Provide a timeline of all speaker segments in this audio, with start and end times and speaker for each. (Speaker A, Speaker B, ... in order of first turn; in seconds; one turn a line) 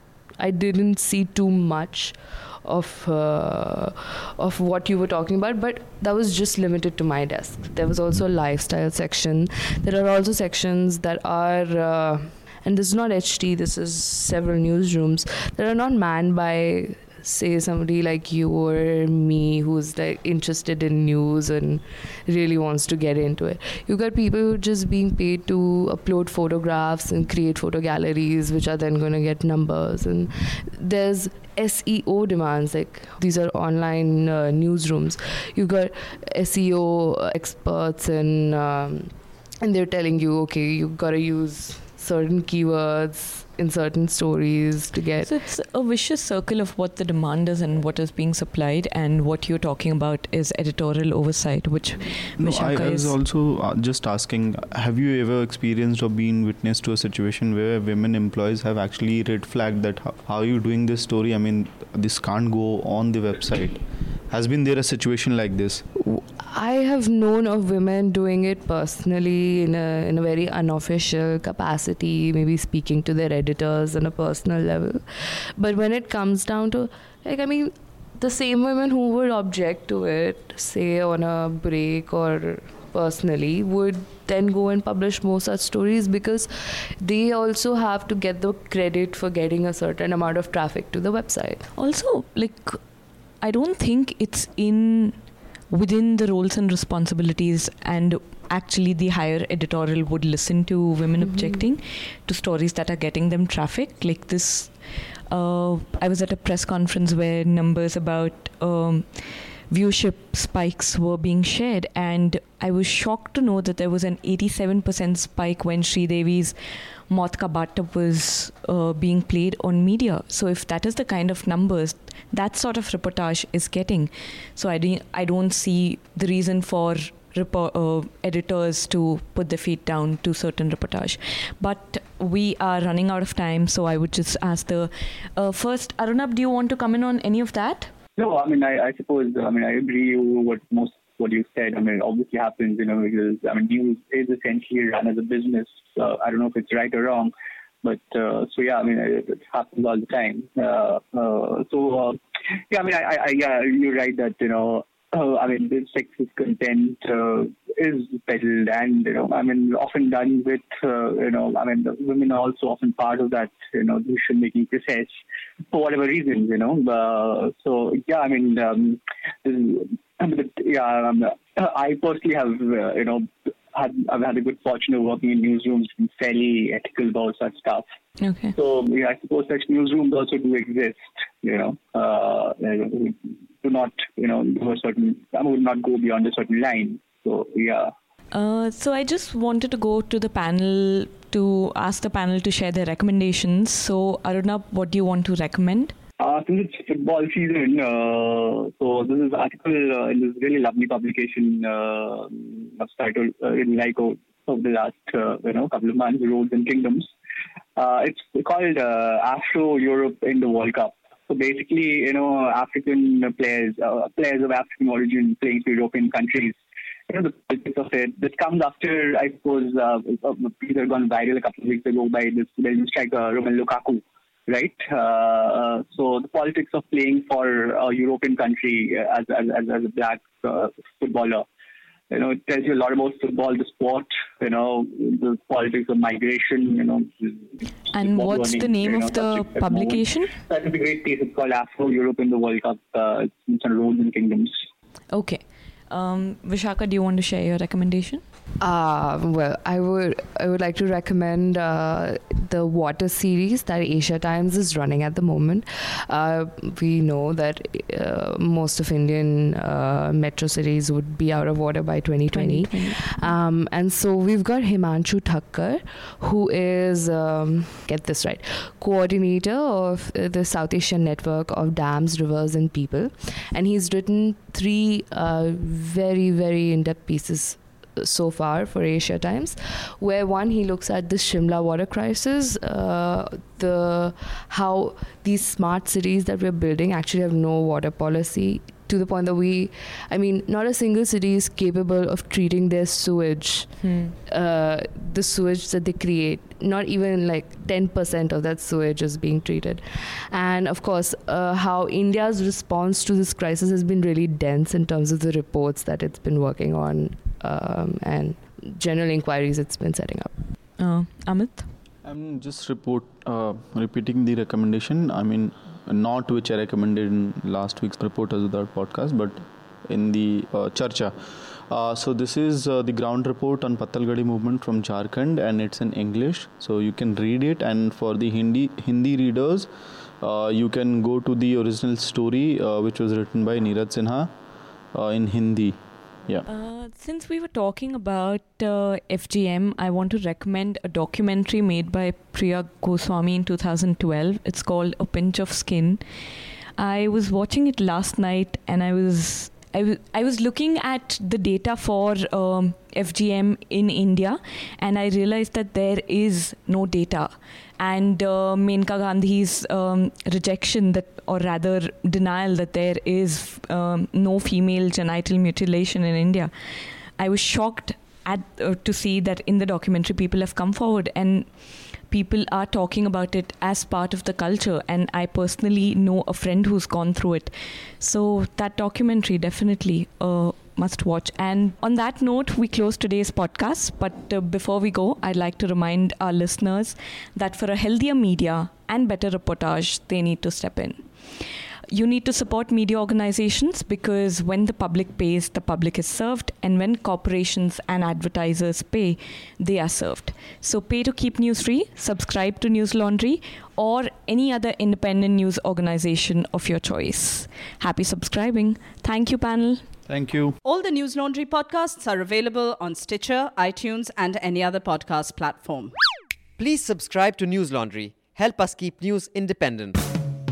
Speaker A: 0.4-45.3
Speaker B: 45.2-53.1
Speaker C: 52.4-65.8
Speaker A: 66.0-91.7
Speaker B: 91.8-92.8
Speaker B: 93.4-95.2
Speaker B: 95.7-104.7
Speaker A: 101.2-101.5
Speaker B: 105.3-116.5
Speaker B: 117.1-137.9
Speaker D: 138.2-147.3
Speaker D: 147.8-152.2
Speaker D: 152.7-165.2
Speaker D: 165.7-177.8
Speaker B: 178.2-178.5
Speaker D: 178.6-187.9
Speaker B: 188.3-195.9
Speaker D: 196.2-207.1
Speaker D: 207.8-216.6
Speaker D: 217.1-231.4
Speaker D: 232.1-244.6
Speaker B: 237.9-240.3
Speaker B: 245.1-248.2
Speaker A: 248.6-310.3
Speaker B: 262.3-263.3
Speaker B: 293.8-294.1
Speaker B: 310.8-311.7
Speaker C: 312.0-321.1
Speaker C: 321.7-329.7
Speaker C: 330.2-334.3
Speaker C: 334.9-336.4
Speaker B: 336.5-346.0
Speaker B: 346.8-366.5
Speaker B: 367.2-371.5
Speaker B: 372.1-391.0
Speaker B: 391.9-409.8
Speaker C: 410.1-410.6
Speaker E: 410.6-415.9
Speaker F: 416.6-420.1